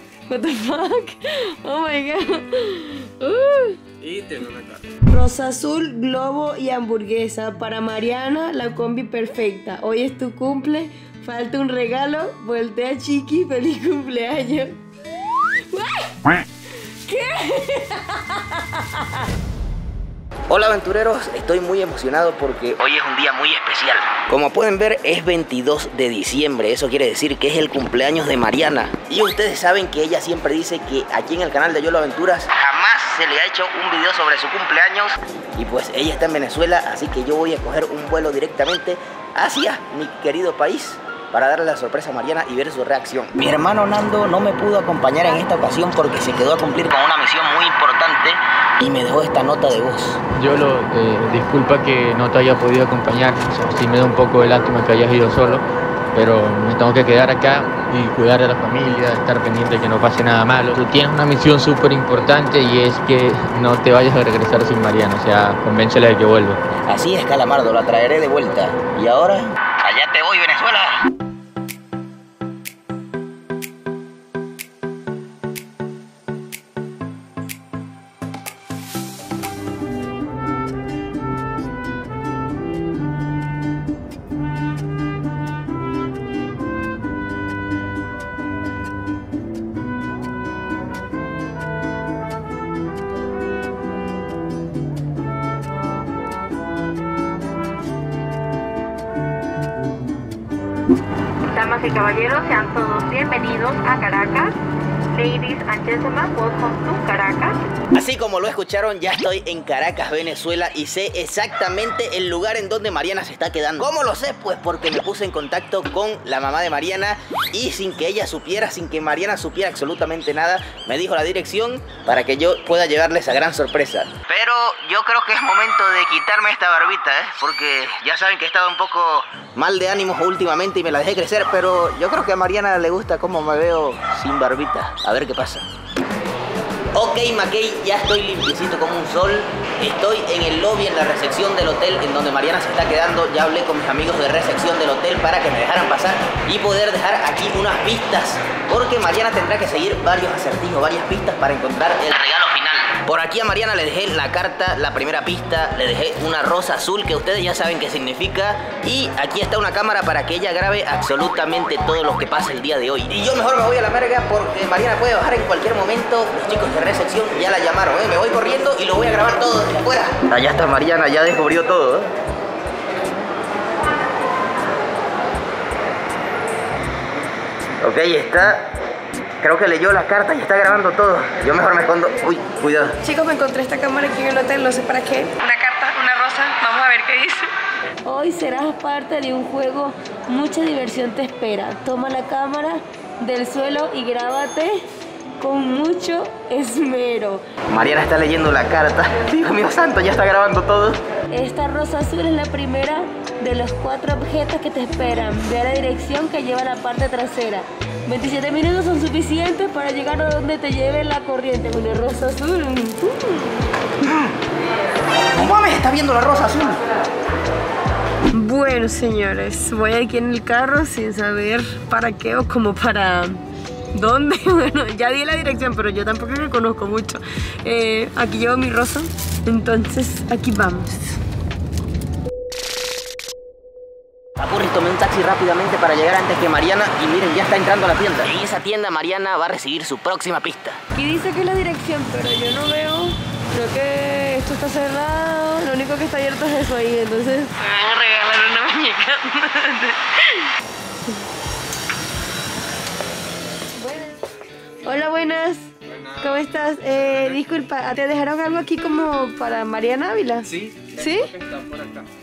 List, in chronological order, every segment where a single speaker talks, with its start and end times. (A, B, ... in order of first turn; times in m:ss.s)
0:00.3-0:03.8 A
0:04.0-0:04.8 B
0:05.1-0:14.8 A
0:15.7-0:16.4 A
0:17.0-0:19.2 A
0:20.5-0:50.2 C
0:50.3-1:06.6 D
1:06.8-1:11.0 C
1:41.5-1:44.6 E
1:45.1-1:47.6 E
1:47.9-2:15.7 C
2:16.9-2:52.1 C
2:57.8-2:58.6 C
2:59.4-3:03.0 C
3:03.0-3:07.5 A
3:08.0-3:14.8 A
3:15.4-3:17.4 A
3:17.7-3:21.0 C
3:21.3-3:33.7 A
3:34.0-3:34.4 C
3:35.3-3:36.8 C
3:38.3-3:51.2 A
3:54.4-4:00.8 C
4:00.9-4:10.5 A
4:13.8-4:14.2 A
4:14.8-4:21.3 A
4:15.9-4:16.2 B
4:20.4-4:22.1 B